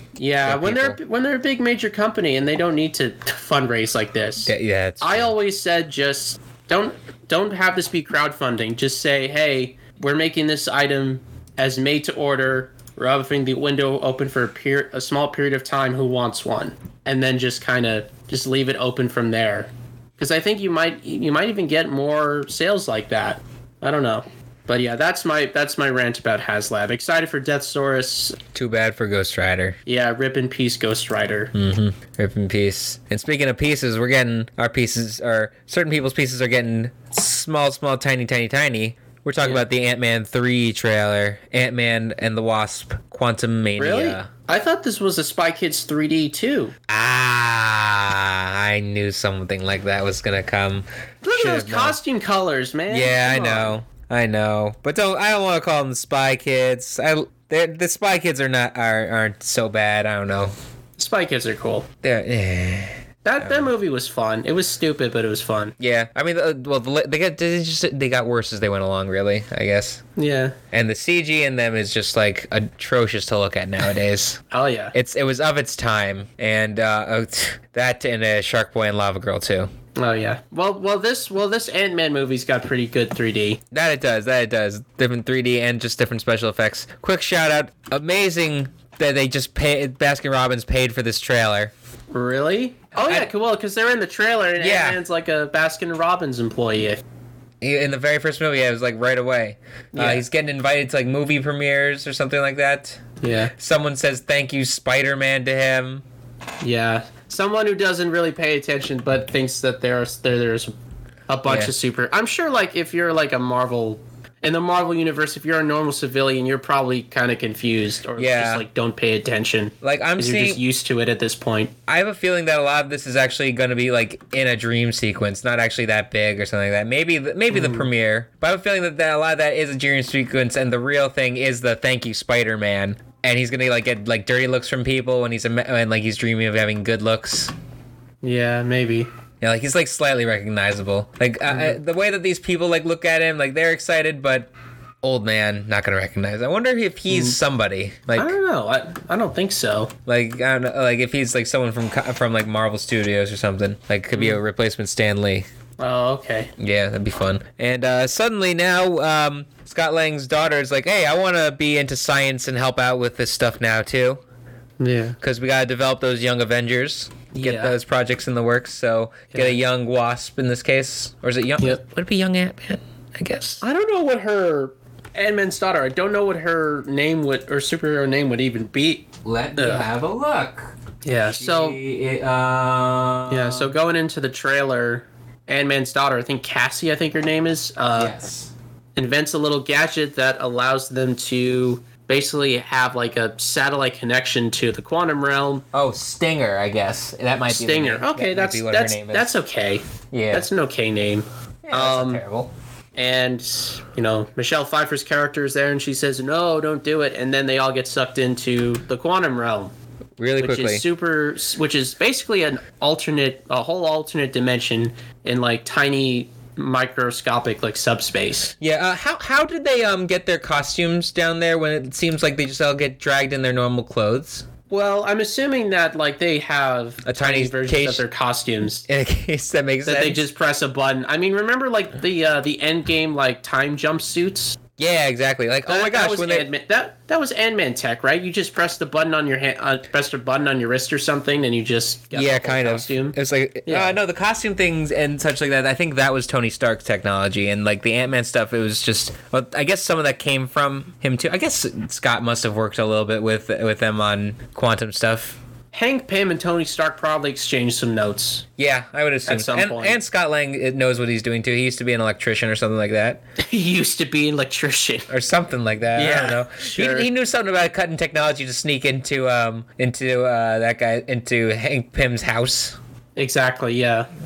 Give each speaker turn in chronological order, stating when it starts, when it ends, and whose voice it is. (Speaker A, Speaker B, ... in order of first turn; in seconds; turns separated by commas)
Speaker A: 0.2-28.4, Speaker B: 0.4-1.0, Speaker B: 4.5-5.3, Speaker B: 28.5-29.8, Speaker A: 29.9-31.5, Speaker B: 31.5-44.3, Speaker A: 43.8-46.8, Speaker B: 46.9-52.0, Speaker A: 51.2-53.8, Speaker B: 52.9-60.5, Speaker A: 61.0-61.9, Speaker B: 62.0-63.7, Speaker A: 63.2-65.8, Speaker B: 65.8-70.0, Speaker A: 70.2-70.6, Speaker B: 70.7-74.4, Speaker A: 74.5-74.9, Speaker B: 74.9-79.7, Speaker A: 80.0-83.6, Speaker B: 83.7-91.7, Speaker A: 92.1-97.0, Speaker B: 93.0-93.3, Speaker B: 94.6-95.0, Speaker B: 97.6-103.0, Speaker A: 99.9-100.3, Speaker A: 103.2-103.5, Speaker B: 103.6-106.0, Speaker A: 106.6-110.7, Speaker A: 111.3-121.7, Speaker B: 111.5-111.7, Speaker B: 118.2-118.6, Speaker B: 119.8-120.6, Speaker B: 121.9-137.5, Speaker A: 127.5-127.9, Speaker A: 138.2-139.1, Speaker B: 139.4-144.5, Speaker A: 141.5-141.8, Speaker B: 145.0-148.4, Speaker A: 147.1-147.4, Speaker A: 148.1-149.9, Speaker B: 150.1-155.5, Speaker A: 154.1-154.4, Speaker A: 155.8-156.5, Speaker B: 156.6-164.2, Speaker A: 164.8-165.2, Speaker B: 165.2-173.6, Speaker A: 167.3-167.8, Speaker A: 169.3-169.6, Speaker A: 173.6-179.9, Speaker B: 179.2-180.7, Speaker A: 181.0-181.8, Speaker B: 181.3-183.7, Speaker A: 183.3-188.1, Speaker B: 187.9-188.5, Speaker A: 188.9-195.7, Speaker B: 195.7-199.3, Speaker A: 197.5-202.2, Speaker B: 200.1-200.5, Speaker B: 201.6-202.5, Speaker A: 202.9-209.7, Speaker B: 210.2-210.8, Speaker A: 210.4-218.5, Speaker B: 218.6-224.4, Speaker A: 224.7-228.8, Speaker B: 227.1-228.1, Speaker B: 228.9-230.2, Speaker A: 229.8-234.6, Speaker B: 234.8-236.5, Speaker A: 235.7-243.9, Speaker B: 242.1-255.4, Speaker A: 255.7-258.5, Speaker B: 258.6-263.2, Speaker A: 259.3-260.0, Speaker A: 263.4-265.1, Speaker B: 265.1-272.8, Speaker A: 265.9-267.1, Speaker A: 273.1-274.1